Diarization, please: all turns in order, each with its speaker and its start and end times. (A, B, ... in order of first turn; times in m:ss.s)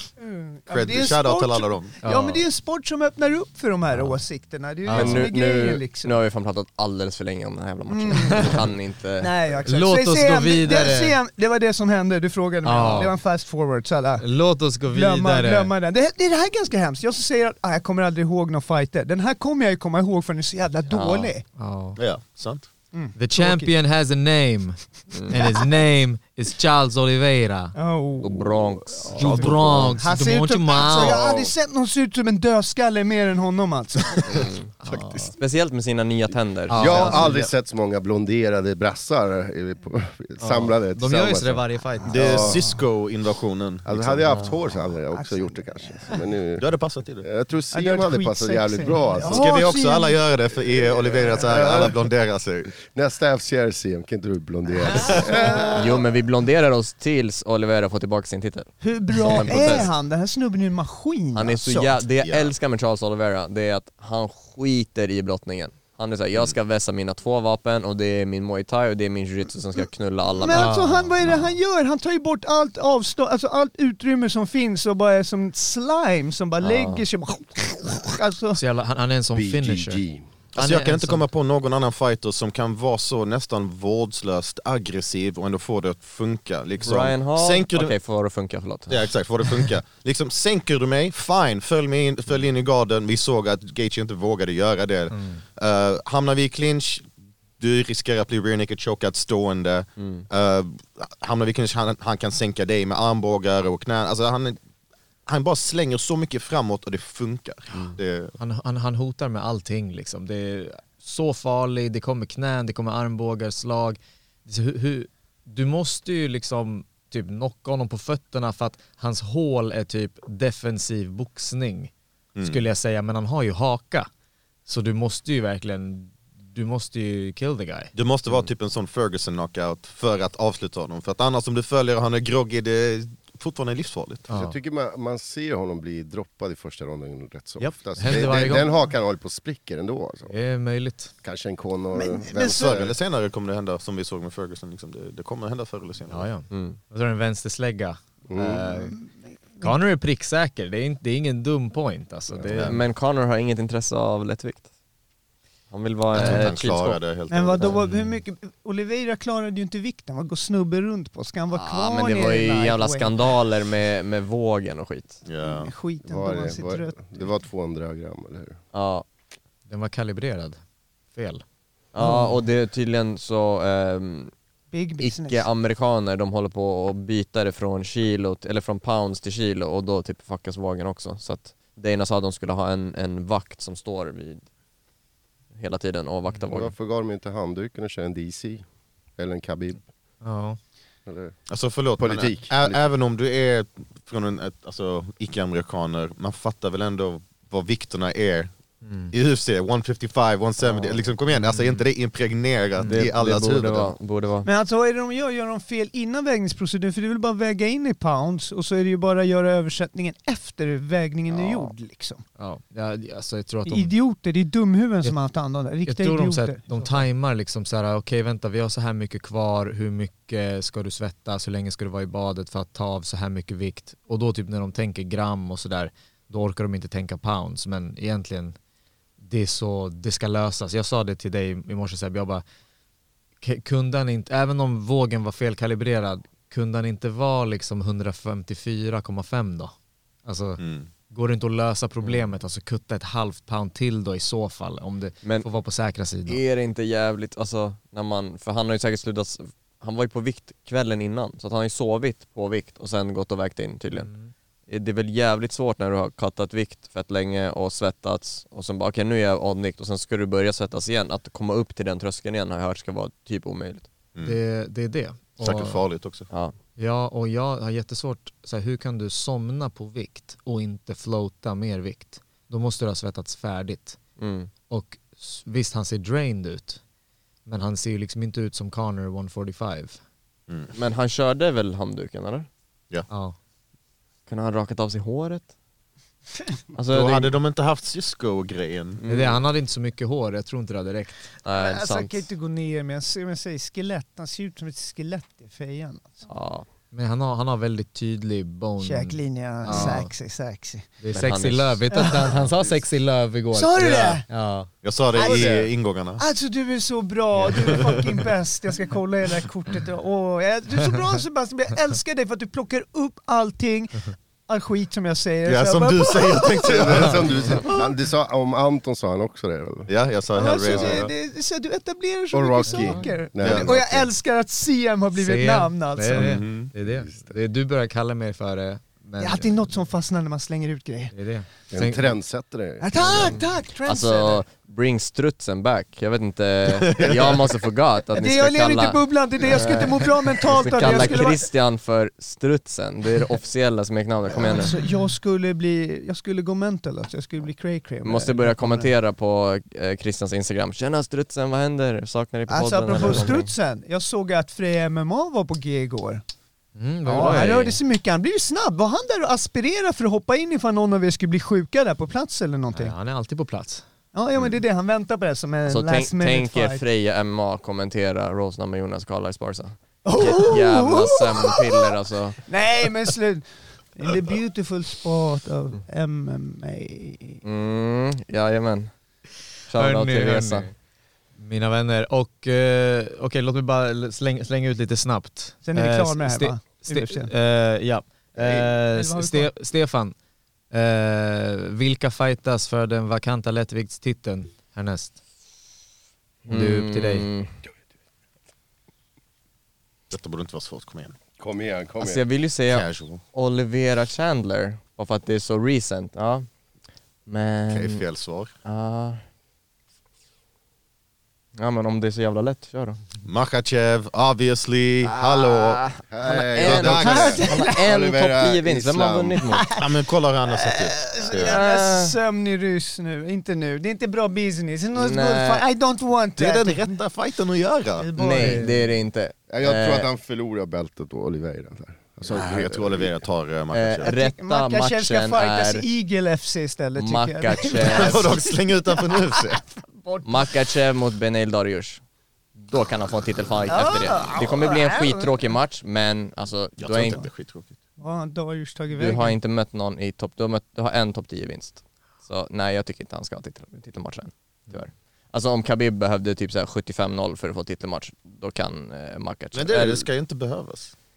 0:00.2-0:06.2 A
0:00.7-0:02.0 B
0:02.0-0:02.4 C
0:04.8-0:05.2 C
0:04.9-0:09.3 D
0:07.9-0:08.7 A
0:09.2-0:14.2 A
0:09.6-0:11.2 C
0:12.6-0:13.2 C
0:14.2-0:15.7 C
0:14.9-0:21.4 A
0:20.9-0:21.3 D
0:21.6-0:22.0 C
0:22.0-0:22.7 B
0:22.9-0:23.7 A
0:23.2-0:27.7 C
0:27.7-0:34.5 A
0:28.2-0:30.0 D
0:29.1-0:31.2 C
0:34.3-0:34.7 D
0:34.8-0:35.3 C
0:35.3-0:37.4 D
0:36.7-0:37.5 C
0:36.7-0:42.6 E
0:40.4-0:42.6 C
0:42.1-0:44.5 B
0:43.8-0:46.6 E
0:45.1-0:46.2 A
0:46.6-0:47.3 B
0:47.2-0:49.6 E
0:47.7-0:50.2 A
0:49.3-0:52.7 B
0:50.8-0:52.0 E
0:52.8-0:55.9 E
0:54.9-0:55.8 A
0:54.9-0:55.7 B
0:55.7-0:59.9 D
0:58.8-1:02.0 A
1:01.3-1:10.7 D
1:02.2-1:02.5 B
1:10.4-1:18.6 A
1:10.5-1:11.1 C
1:16.6-1:17.0 D
1:18.5-1:20.0 C
1:19.3-1:20.2 E
1:20.5-1:21.3 C
1:20.5-1:28.0 B
1:26.8-1:29.1 D
1:28.9-1:44.6 B
1:35.1-1:35.4 C
1:40.0-1:40.2 D
1:45.2-1:48.3 B
1:48.4-2:04.1 C
2:02.4-2:02.6 B
2:04.6-2:07.9 C
2:07.9-2:14.3 B
2:14.3-2:14.6 C
2:14.3-2:20.3 E
2:17.6-2:18.7 C
2:20.3-2:21.1 C
2:21.2-2:22.9 E
2:21.9-2:22.7 A
2:22.5-2:26.3 B
2:26.1-2:28.9 C
2:26.5-2:26.8 D
2:28.3-2:28.7 E
2:29.6-2:32.8 C
2:32.5-2:32.8 B
2:32.6-2:34.6 D
2:35.7-2:37.0 D
2:36.1-2:37.8 B
2:36.2-2:36.5 C
2:37.3-2:43.3 A
2:37.8-2:38.2 C
2:41.5-2:45.2 D
2:45.2-2:45.7 B
2:45.4-2:47.2 A
2:46.0-2:48.6 E
2:48.7-2:49.0 D
2:49.7-2:50.6 C
2:51.1-2:51.4 C
2:51.9-2:54.3 D
2:52.0-2:52.2 C
2:54.7-2:55.5 A
2:55.0-3:04.4 D
3:05.5-3:06.7 D
3:06.5-3:08.6 E
3:09.2-3:09.8 E
3:10.2-3:10.6 C
3:11.0-3:11.3 E
3:11.5-3:18.5 B
3:12.0-3:12.8 E
3:18.8-3:19.1 C
3:19.1-3:23.9 B
3:20.6-3:21.0 D
3:21.3-3:21.8 C
3:22.8-3:23.1 C
3:22.8-3:24.5 D
3:24.4-3:32.2 A
3:31.3-3:31.7 D
3:32.4-3:33.9 C
3:33.6-3:36.8 A
3:35.8-3:48.6 C
3:49.2-3:52.4 C
3:53.4-3:59.7 C
4:00.2-4:06.4 C
4:00.6-4:00.9 B
4:06.2-4:14.1 D
4:13.9-4:14.3 C
4:14.7-4:23.9 D
4:24.2-4:25.8 C
4:25.4-4:26.3 B
4:26.8-4:34.0 C
4:34.2-4:34.5 D
4:34.7-4:36.8 C
4:37.4-4:40.0 C
4:40.7-4:42.5 D
4:43.1-4:43.4 C
4:44.3-4:45.5 D
4:46.7-4:47.3 D
4:46.9-4:49.0 B
4:49.0-4:49.4 D
4:49.1-4:51.3 C
4:51.4-4:52.2 D
4:51.5-4:56.2 A
4:56.2-4:56.6 D
4:56.9-5:00.1 C
4:58.8-5:00.9 A
5:01.0-5:04.7 C
5:01.1-5:02.1 D
5:01.9-5:02.3 A
5:03.5-5:04.2 A
5:04.8-5:06.2 B
5:05.1-5:05.6 A
5:06.2-5:17.9 A
5:07.6-5:08.2 B
5:15.4-5:17.7 B
5:16.6-5:19.9 E
5:19.9-5:21.1 B
5:20.3-5:26.4 A
5:20.6-5:21.0 E
5:22.3-5:24.1 E
5:22.7-5:23.1 C
5:23.4-5:23.9 B
5:25.1-5:29.7 C
5:26.1-5:26.7 B
5:26.8-5:27.3 E
5:29.2-5:31.1 A
5:31.1-5:32.2 C
5:31.7-5:32.9 E
5:32.8-5:34.4 A
5:33.1-5:44.8 D
5:36.7-5:37.5 B
5:38.1-5:41.4 A
5:44.3-5:48.9 A
5:48.0-5:53.5 D
5:52.5-5:56.2 A
5:56.8-5:57.8 C
5:57.1-5:57.8 D
5:57.1-6:02.9 A
6:02.7-6:03.8 C
6:04.1-6:06.8 A
6:05.6-6:12.4 D
6:10.0-6:11.9 A
6:12.4-6:17.4 A
6:17.4-6:18.9 D
6:19.7-6:20.7 D
6:19.7-6:20.7 C
6:21.4-6:30.1 C
6:25.6-6:27.3 A
6:28.7-6:29.5 A
6:30.7-6:35.2 C
6:36.4-6:37.3 C
6:36.4-6:37.5 D
6:40.1-6:41.2 B
6:41.4-6:42.2 E
6:42.0-6:46.5 D
6:42.7-6:43.2 B
6:47.2-6:48.0 D
6:47.7-6:48.5 B
6:48.6-6:49.2 D
6:51.6-6:53.0 D
6:53.2-6:55.8 B
6:55.0-6:59.7 D
6:56.1-6:59.4 E
6:56.6-6:57.4 B
6:57.0-6:57.8 A
6:59.5-6:59.9 A
6:59.8-7:01.5 B
7:00.4-7:07.0 A
7:01.3-7:02.2 D
7:04.9-7:05.6 D
7:06.4-7:08.1 B
7:08.0-7:08.7 A
7:08.2-7:10.1 D
7:09.5-7:13.2 E
7:12.2-7:14.1 B
7:13.7-7:15.8 D
7:14.0-7:20.5 A
7:16.9-7:18.4 D
7:17.9-7:19.6 B
7:20.2-7:22.0 D
7:22.6-7:27.2 D
7:23.7-7:25.3 A
7:26.8-7:27.8 B
7:28.0-7:29.3 A
7:28.9-7:40.1 D
7:39.5-7:40.9 B